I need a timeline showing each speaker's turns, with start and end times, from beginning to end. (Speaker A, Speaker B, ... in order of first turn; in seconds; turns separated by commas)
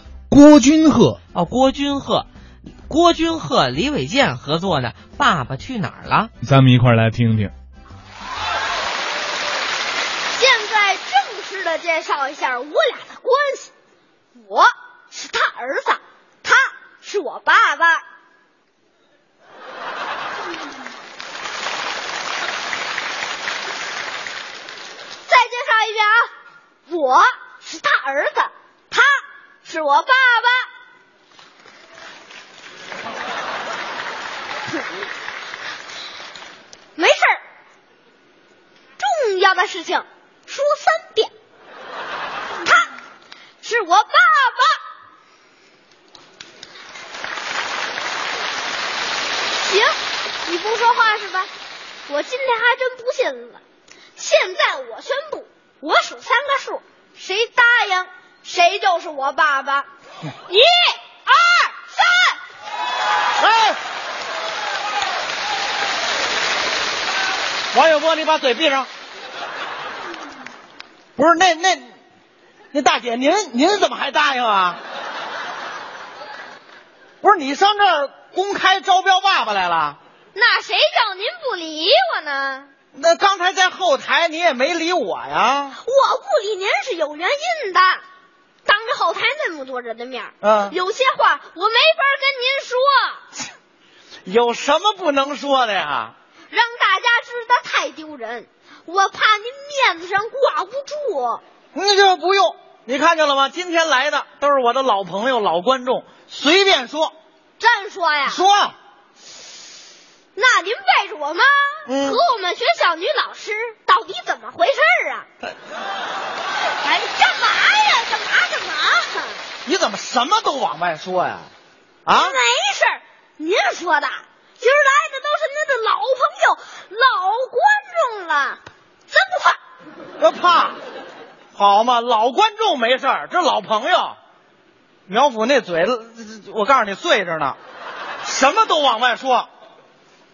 Speaker A: 0.3-1.2, Speaker B: 1.3-2.3, Speaker B: 2.9-6.3, Speaker A: 6.4-7.5, Speaker C: 10.3-13.7, Speaker C: 14.4-18.1, Speaker C: 25.2-26.3, Speaker C: 26.9-30.7, Speaker C: 37.0-37.4, Speaker C: 39.0-41.3, Speaker C: 42.6-42.9, Speaker C: 43.6-44.8, Speaker C: 49.6-51.5, Speaker C: 52.1-53.6, Speaker C: 54.2-59.9, Speaker C: 60.5-62.4, Speaker D: 63.4-63.8, Speaker D: 67.7-68.9, Speaker D: 71.2-71.9, Speaker D: 72.7-74.8, Speaker D: 77.2-80.0, Speaker C: 80.3-82.7, Speaker D: 82.9-85.8, Speaker C: 85.8-88.0, Speaker C: 88.7-93.3, Speaker D: 90.4-90.8, Speaker D: 94.2-96.1, Speaker C: 96.5-101.4, Speaker D: 101.8-107.1, Speaker C: 107.6-108.4, Speaker D: 108.3-108.8, Speaker C: 110.3-115.3, Speaker D: 111.9-112.2, Speaker C: 116.8-119.4, Speaker D: 119.7-121.5, Speaker D: 122.1-122.4, Speaker C: 122.1-129.6, Speaker D: 130.2-130.8, Speaker D: 131.6-134.2, Speaker D: 135.1-137.6, Speaker D: 138.2-139.5